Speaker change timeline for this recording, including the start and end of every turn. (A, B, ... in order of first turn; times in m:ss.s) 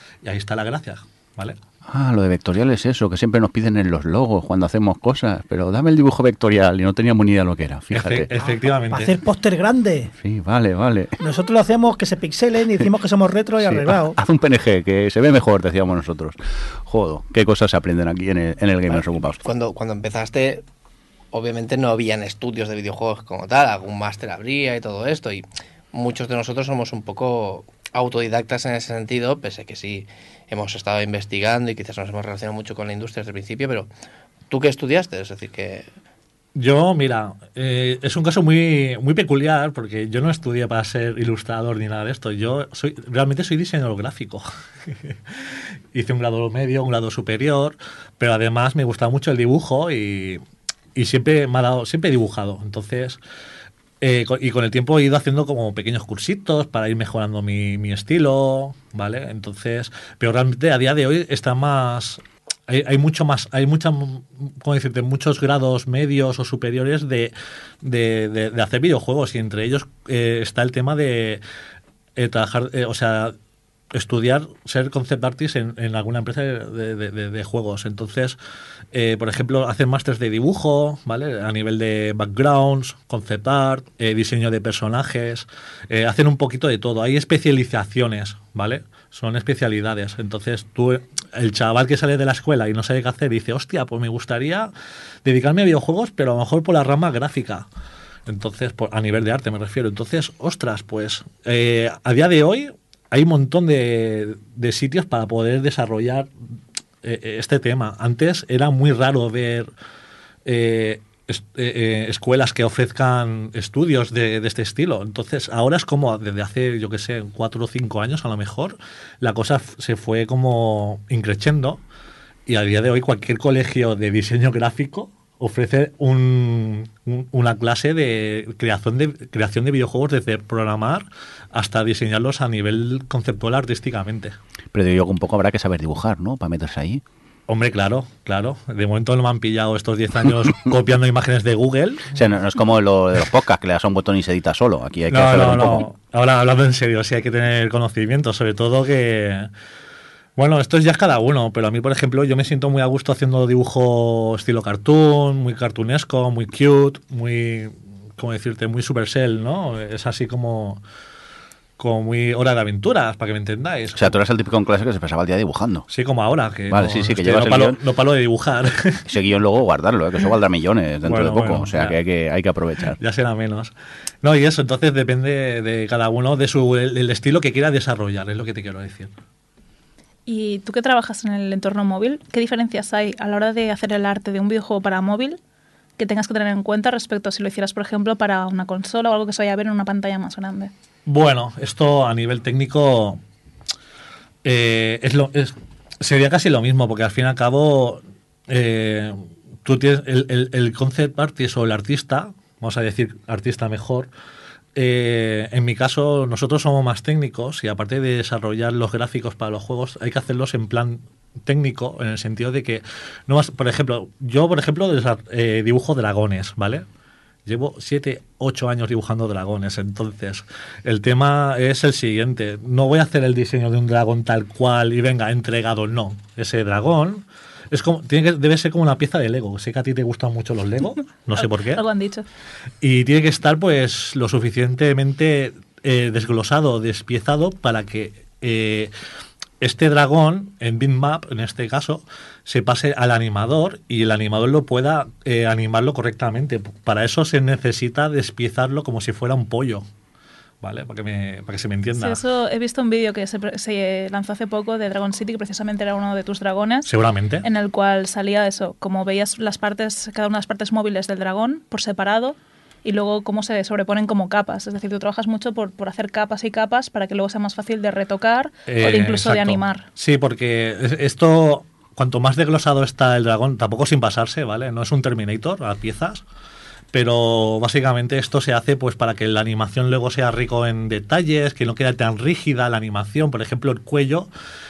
0:00.2-0:01.6 A
0:01.9-0:08.3 B
0:07.9-0:09.1 A
0:08.4-0:10.1 C
0:10.2-0:11.2 B
0:11.2-0:14.2 C
0:13.6-0:19.4 B
0:19.0-0:20.6 D
0:21.3-0:33.9 D
0:34.5-0:35.9 D
0:36.5-0:45.3 A
0:45.9-0:50.4 A
0:50.9-0:53.2 A
0:54.0-1:11.4 A
1:12.2-1:13.3 A
1:13.9-1:18.4 A
1:18.9-1:34.7 A
1:35.2-1:37.6 A
1:38.2-1:46.3 A
1:47.0-1:49.7 A
1:50.4-2:01.8 A
2:02.4-2:14.3 A
2:14.7-2:17.0 B
2:17.5-2:22.1 A
2:22.1-2:25.8 B
2:25.1-2:29.5 A
2:30.4-2:40.8 A
2:41.8-2:44.2 A
2:43.9-2:45.9 B
2:45.9-2:49.0 A
2:46.7-2:47.8 B
2:49.1-2:53.0 B
2:51.0-2:52.0 A
2:53.0-2:59.1 A
3:00.3-3:05.4 E
3:06.0-3:10.7 E
3:11.0-3:13.2 A
3:14.4-3:24.1 A
3:24.8-3:36.8 A
3:37.4-3:51.8 A
3:51.3-3:52.2 E
3:52.8-3:58.9 A
3:59.6-4:09.8 A
4:10.6-4:12.2 A
4:11.9-4:16.9 E
4:16.9-4:17.4 A
4:17.4-4:29.9 E
4:28.7-4:36.2 A
4:36.9-4:44.3 A